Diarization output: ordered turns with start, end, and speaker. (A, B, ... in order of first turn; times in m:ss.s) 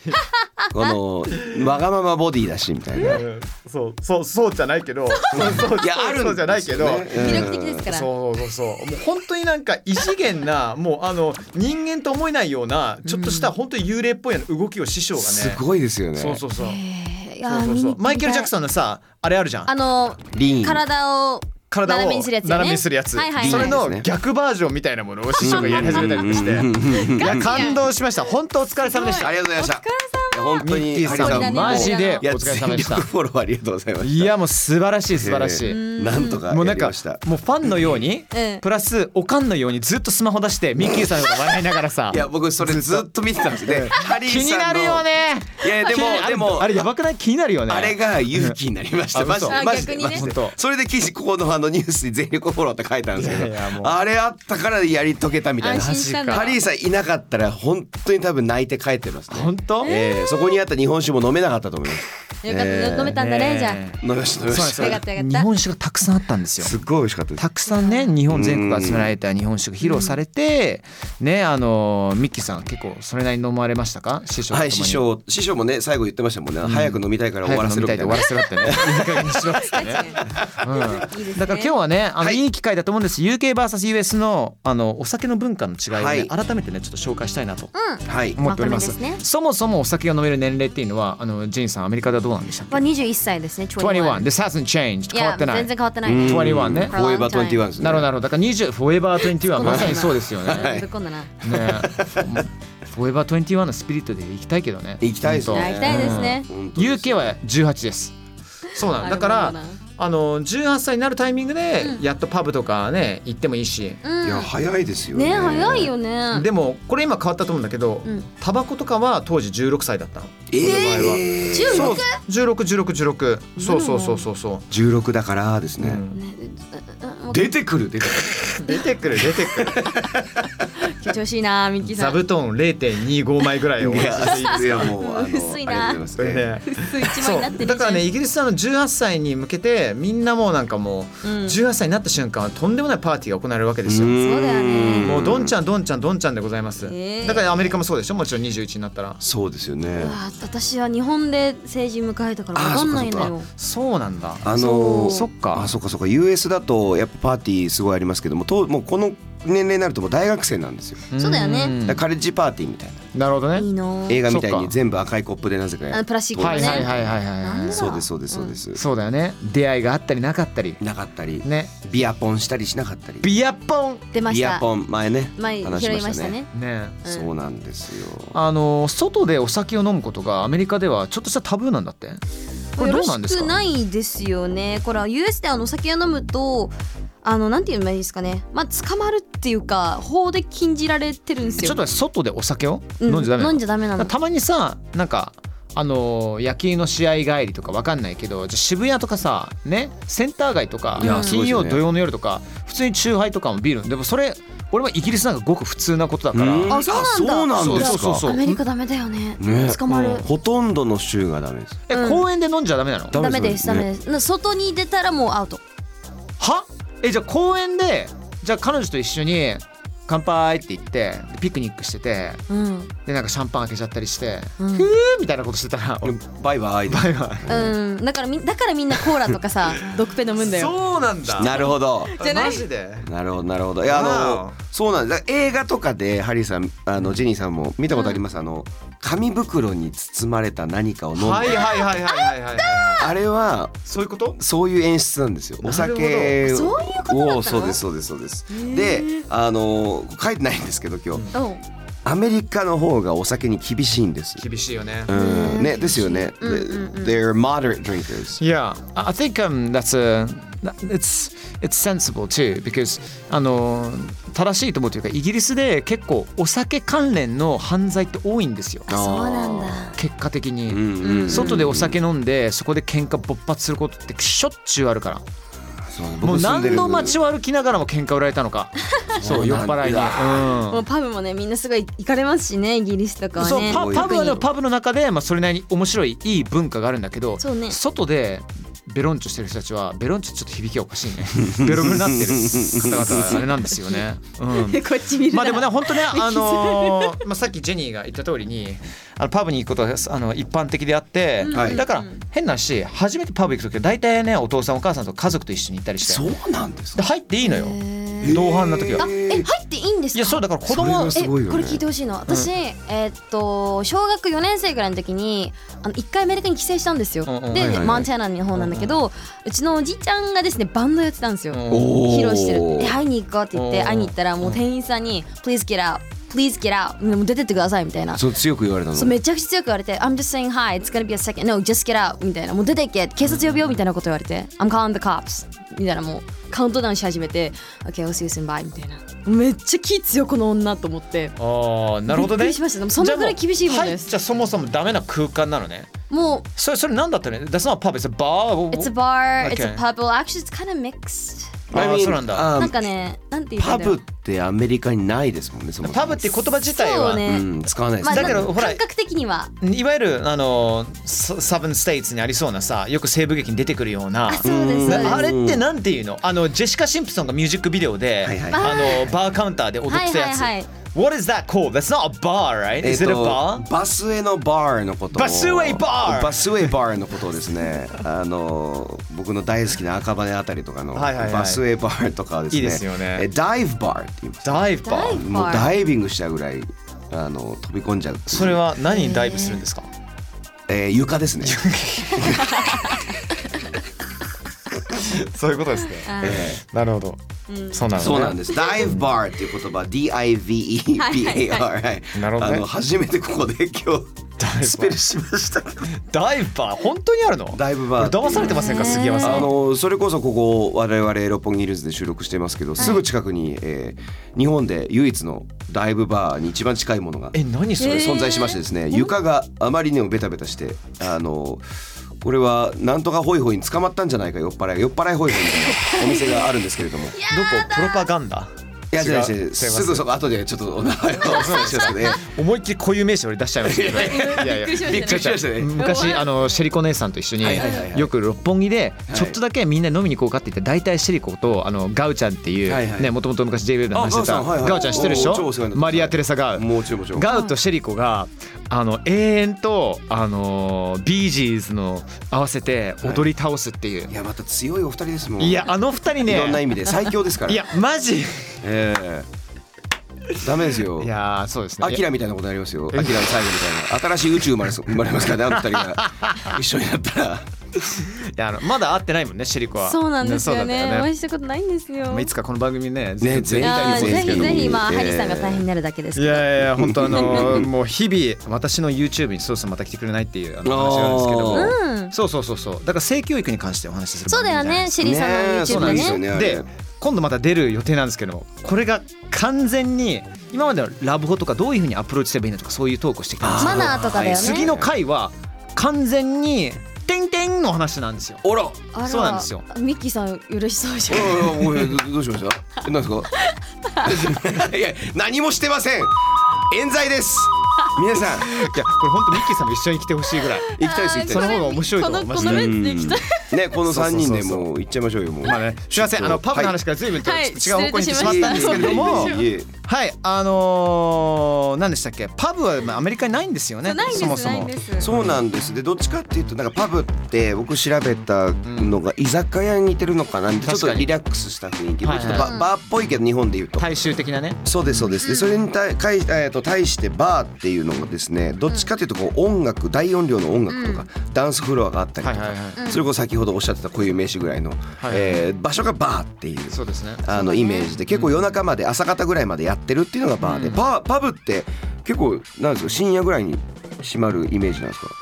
0:00.2-0:00.9 A
0:00.7-0:03.2 B
0:03.0-0:15.6 C
0:05.3-0:07.9 B
0:07.1-0:08.1 A
0:13.0-0:13.5 A
0:15.2-0:16.4 B
0:16.1-0:16.8 C
0:16.6-0:18.5 A
0:17.4-0:19.7 C
0:19.7-0:23.8 A
0:20.3-0:20.8 B
0:21.7-0:29.3 C
0:23.4-0:24.1 B
0:25.4-0:27.7 B
0:25.4-0:27.9 A
0:28.8-0:32.2 A
0:29.1-0:34.3 B
0:30.6-0:33.1 C
0:34.0-0:48.6 C
0:35.1-0:38.0 B
0:35.6-0:36.4 A
0:38.3-0:38.6 A
0:42.1-0:45.1 B
0:45.6-0:46.9 B
0:47.7-1:03.2 B
0:49.1-0:50.6 C
0:49.5-0:50.3 A
0:53.2-0:53.9 C
0:55.6-0:56.6 A
0:55.8-0:56.5 C
0:59.3-0:59.9 C
0:59.8-1:00.6 A
1:02.4-1:03.8 A
1:03.1-1:06.8 C
1:04.0-1:05.0 B
1:04.7-1:05.5 A
1:06.6-1:07.4 B
1:07.4-1:15.0 C
1:07.7-1:08.1 A
1:08.3-1:09.1 B
1:09.8-1:10.2 A
1:14.5-1:19.3 B
1:16.6-1:27.7 C
1:18.6-1:21.7 A
1:25.9-1:26.3 B
1:27.7-1:29.2 A
1:28.0-1:28.4 B
1:28.4-1:32.8 C
1:32.7-1:34.3 A
1:33.8-1:36.9 C
1:35.1-1:37.6 A
1:36.0-1:38.1 B
1:37.8-1:40.8 C
1:39.3-1:41.3 A
1:39.6-1:40.9 B
1:41.4-1:42.4 B
1:41.4-1:48.1 C
1:45.0-1:47.3 B
1:45.5-1:46.5 A
1:48.7-1:54.0 C
1:49.0-1:49.8 A
1:54.0-1:54.5 A
1:54.2-1:55.9 B
1:55.1-1:56.5 A
1:56.3-2:04.7 C
2:00.5-2:02.0 B
2:00.7-2:02.2 A
2:03.6-2:04.3 A
2:04.7-2:06.0 B
2:05.8-2:06.2 C
2:06.1-2:07.5 A
2:07.3-2:08.6 B
2:08.5-2:09.9 C
2:09.2-2:10.6 B
2:10.8-2:12.2 A
2:11.8-2:14.9 C
2:13.8-2:16.5 B
2:14.0-2:16.0 A
2:16.2-2:24.2 C
2:16.6-2:18.1 A
2:21.2-2:21.6 A
2:23.8-2:25.5 B
2:24.2-2:25.2 A
2:25.0-2:29.2 C
2:26.8-2:27.7 A
2:29.2-2:30.2 B
2:29.9-2:33.5 A
2:32.5-2:33.3 B
2:33.5-2:34.5 C
2:34.4-2:41.1 B
2:34.5-2:35.2 A
2:35.0-2:35.7 C
2:41.1-2:42.0 C
2:41.2-2:41.8 A
2:41.8-2:43.0 B
2:43.1-2:43.7 C
2:43.6-2:44.2 A
2:44.1-2:47.1 B
2:44.2-2:44.7 C
2:45.9-2:48.6 A
2:46.4-2:47.8 C
2:47.7-2:48.8 B
2:48.7-2:50.8 C
2:50.8-2:53.3 B
2:51.4-2:51.7 C
2:53.2-2:54.1 C
2:54.1-2:54.7 A
2:54.2-2:56.4 B
2:55.4-2:56.5 A
2:56.5-2:57.0 C
2:57.0-2:57.3 A
2:57.0-2:58.3 B
2:58.3-3:02.2 C
3:02.8-3:03.6 C
3:02.8-3:11.8 A
3:11.4-3:11.8 B
3:11.6-3:26.8 C
3:13.0-3:14.1 A
3:21.0-3:21.8 B
3:21.0-3:21.4 A
3:26.3-3:28.3 B
3:26.7-3:30.3 A
3:27.5-3:28.6 C
3:29.4-3:31.8 B
3:29.9-3:30.2 C
3:31.9-3:33.2 C
3:31.9-3:32.2 A
3:33.1-3:33.9 B
3:33.1-3:35.6 A
3:36.4-3:42.4 C
3:42.5-3:42.9 A
3:43.0-3:46.2 C
3:44.6-3:44.9 A
3:46.0-3:47.8 B
3:46.9-3:47.7 C
3:47.5-3:50.8 A
3:50.4-3:53.1 C
3:51.3-3:52.2 B
3:51.4-3:52.6 A
3:53.0-4:01.8 B
3:53.8-3:54.6 C
3:57.9-3:58.2 A
4:01.2-4:03.1 C
4:01.6-4:03.1 A
4:03.0-4:03.8 B
4:03.8-4:04.4 C
4:04.4-4:11.2 B
4:05.6-4:06.4 C
4:06.4-4:07.8 A
4:08.5-4:09.2 A
4:11.3-4:11.6 A
4:12.0-4:14.4 B
4:14.4-4:15.1 C
4:15.0-4:18.4 B
4:15.1-4:17.2 A
4:18.4-4:28.9 C
4:28.9-4:30.0 A
4:28.9-4:29.9 B
4:30.0-4:35.2 C
4:30.7-4:32.0 B
4:31.0-4:31.6 A
4:35.9-4:37.2 B
4:36.2-4:40.8 C
4:39.1-4:40.5 B
4:40.7-4:44.4 A
4:43.4-5:06.3 C
4:43.6-4:44.1 B
4:47.4-4:47.8 A
4:51.4-4:53.4 B
4:53.3-4:54.0 A
4:54.5-4:57.2 A
5:01.4-5:02.2 A
5:01.5-5:01.8 B
5:06.0-5:07.0 B
5:06.9-5:09.1 C
5:07.4-5:08.4 A
5:08.2-5:09.5 B
5:09.0-5:10.4 A
5:10.1-5:11.2 C
5:10.7-5:11.8 B
5:11.1-5:28.2 A
5:17.2-5:17.9 C
5:17.5-5:18.1 B
5:18.5-5:19.0 C
5:21.5-5:22.0 C
5:21.7-5:23.0 B
5:23.5-5:24.6 C
5:28.1-5:29.1 B
5:28.9-5:41.4 A
5:33.2-5:33.8 C
5:41.4-5:45.9 C
5:42.1-5:44.1 A
5:46.1-5:46.5 A
5:46.6-5:49.8 C
5:48.7-5:51.6 A
5:51.7-5:52.8 B
5:51.7-5:52.5 C
5:52.5-5:54.0 A
5:53.6-5:56.4 B
5:55.8-5:57.2 C
5:56.7-5:57.5 A
5:57.2-5:58.5 B
5:58.0-5:59.5 A
5:58.1-5:58.8 C
5:59.6-6:13.6 C
6:04.3-6:05.2 A
6:04.4-6:05.6 B
6:08.2-6:08.8 B
6:08.5-6:09.1 A
6:09.9-6:10.7 A
6:12.8-6:28.6 B
6:15.1-6:16.7 C
6:20.9-6:21.6 C
6:22.5-6:23.3 C
6:24.4-6:25.2 C
6:24.8-6:25.8 A
6:28.3-6:29.9 C
6:28.9-6:29.6 A
6:30.7-6:31.6 B
6:31.4-6:33.0 C
6:32.1-6:32.6 B
6:32.2-6:33.0 A
6:34.9-6:39.0 C
6:36.0-6:36.5 A
6:36.2-6:36.6 B
6:37.5-6:38.9 A
6:37.9-6:45.9 B
6:41.0-6:41.6 A
6:42.1-6:42.6 C
6:44.4-6:45.0 C
6:45.9-6:49.5 C
6:47.5-7:01.6 B
6:48.3-6:49.5 A
6:52.8-6:53.0 A
6:57.3-6:58.2 C
6:57.8-6:59.1 A
7:02.2-7:07.2 B
7:05.4-7:06.5 A
7:07.1-7:08.0 A
7:07.3-7:10.0 C
7:08.9-7:12.2 B
7:11.2-7:34.1 C
7:11.2-7:12.2 A
7:13.6-7:16.1 B
7:13.9-7:16.5 A
7:17.4-7:18.1 B
7:17.5-7:17.9 A
7:19.1-7:19.4 B
7:22.7-7:23.1 B
7:23.9-7:27.3 B
7:24.7-7:25.3 A
7:27.2-7:27.5 A
7:34.1-7:35.7 B
7:35.4-7:36.9 C
7:36.2-7:37.6 B
7:37.4-7:38.6 C
7:38.6-7:39.3 B
7:40.4-7:41.1 B
7:41.0-7:42.0 C
7:41.8-7:47.5 B
7:42.9-7:43.4 C
7:45.5-7:46.6 C
7:47.9-7:51.1 C
7:49.8-7:52.3 A
7:52.1-7:54.7 C
7:53.2-7:55.6 B
7:53.6-7:56.5 A
7:56.1-8:05.0 C
7:56.8-7:57.7 B
7:57.1-7:57.4 A
8:00.6-8:01.7 B
8:01.5-8:02.1 A
8:04.3-8:06.2 A
8:05.0-8:06.6 B
8:05.7-8:18.4 C
8:13.4-8:14.9 B
8:13.6-8:14.7 A
8:18.4-8:18.8 B
8:18.9-8:22.0 A
8:19.0-8:19.6 C
8:21.1-8:23.3 B
8:23.3-8:24.3 A
8:24.0-8:28.6 B
8:28.4-8:32.8 C
8:30.7-8:33.6 A
8:30.7-8:31.6 B
8:32.4-8:36.8 B
8:33.8-8:34.7 C
8:35.4-8:45.4 C
8:37.1-8:39.5 A
8:38.1-8:39.7 B
8:43.8-8:45.1 A
8:45.0-8:53.9 B
8:48.6-8:49.0 C
8:50.6-8:51.1 C
8:52.0-8:52.6 C
8:52.3-8:52.7 A
8:53.8-8:54.6 C
8:54.6-9:15.1 B
8:55.1-8:55.6 A
9:00.7-9:01.0 A
9:02.2-9:02.8 C
9:02.8-9:03.0 A
9:05.0-9:05.4 C
9:06.7-9:07.3 C
9:07.3-9:07.9 A
9:08.1-9:08.4 C
9:10.4-9:10.8 C